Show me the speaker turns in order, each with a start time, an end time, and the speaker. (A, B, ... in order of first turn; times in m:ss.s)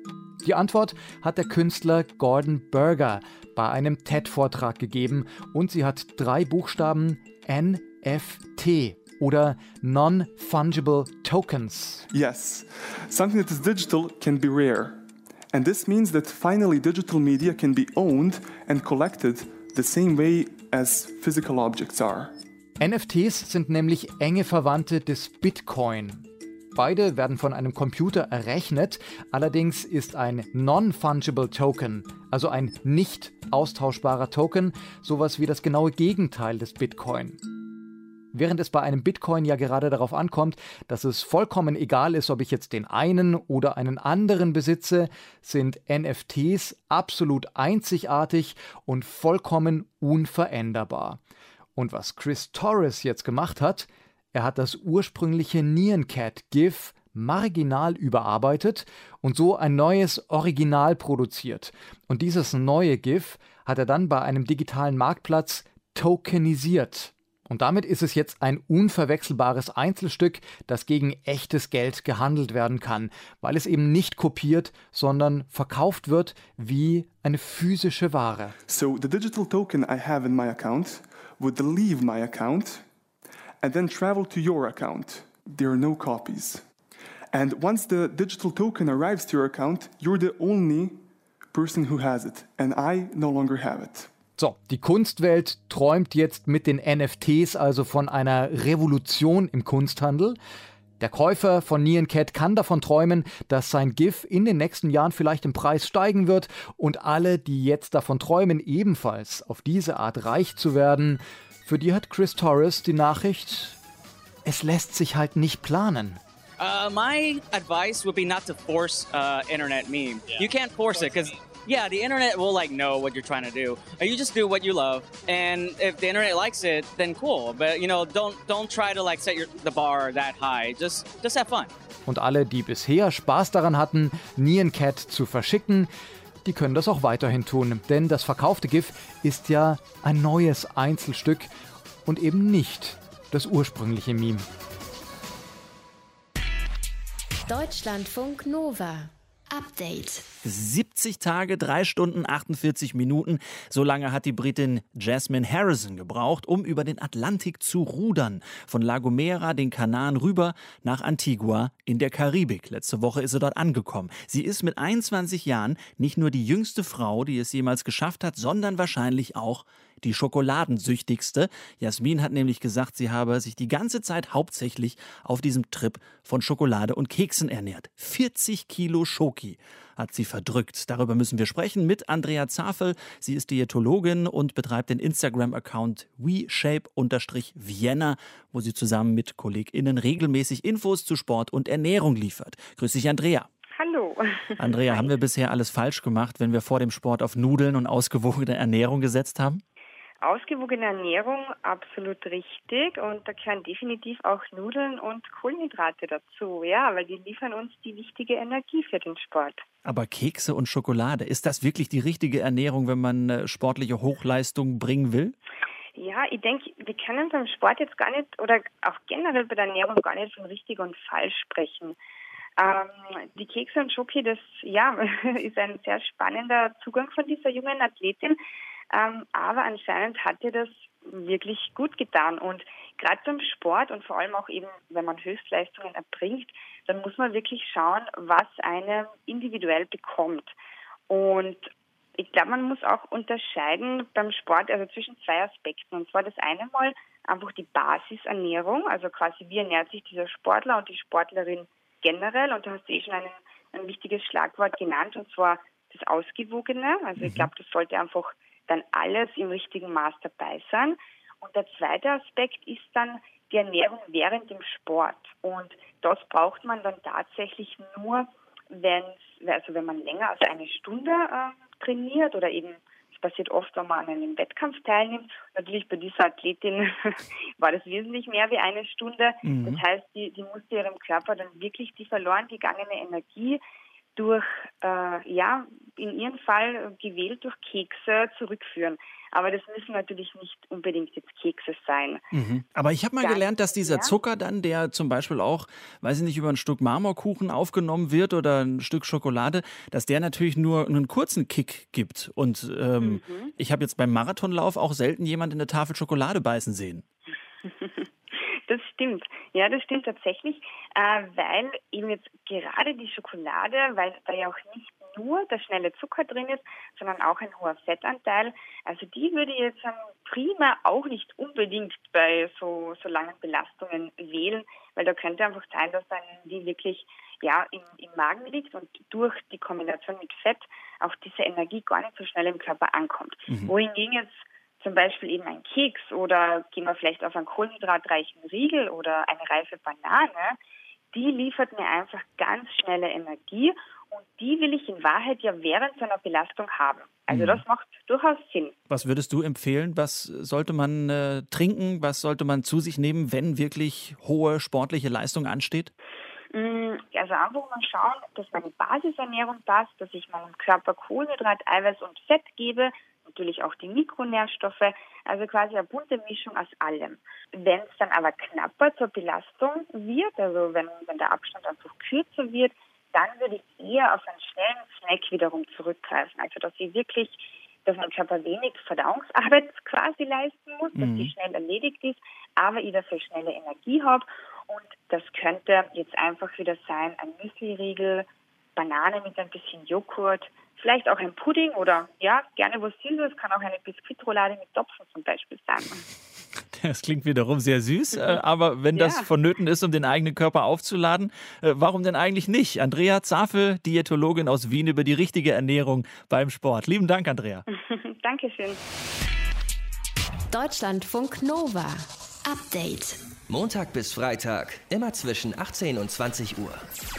0:00.4-0:12.0 A
0:12.1-0:22.4 B
0:22.8-0:37.4 A
0:38.3-0:51.2 A
0:51.8-1:18.6 A
1:18.7-1:22.8 B
1:23.6-1:26.6 B
1:27.3-1:31.0 B
1:31.5-1:34.1 B
1:34.4-1:40.4 A
1:41.0-1:53.8 A
1:54.4-1:56.2 A
1:56.6-2:11.7 C
2:12.1-2:15.9 A
2:16.4-2:21.5 A
2:22.0-2:24.5 A
2:27.5-2:30.3 D
2:30.4-3:13.5 E
3:13.8-3:15.1 F
3:14.6-3:19.6 E
3:20.2-3:29.6 F
3:29.8-3:35.4 E
3:36.0-3:42.0 F
3:42.6-3:48.4 F
3:48.9-4:00.6 F
4:01.1-4:43.6 F
4:17.2-4:17.5 E
4:39.4-4:39.8 E
4:44.2-4:52.2 F
4:52.3-5:07.0 E
4:53.2-4:54.2 F
5:03.0-5:03.5 F
5:07.6-5:40.6 F
5:41.1-5:48.8 F
5:47.3-5:47.6 E
5:48.9-5:55.9 E
5:56.5-6:36.0 F
6:21.0-6:21.3 E
6:36.7-6:47.6 E
6:38.1-6:38.4 F
6:38.9-6:39.3 F
6:47.7-6:48.8 F
6:50.5-6:53.2 D
6:53.5-6:56.9 G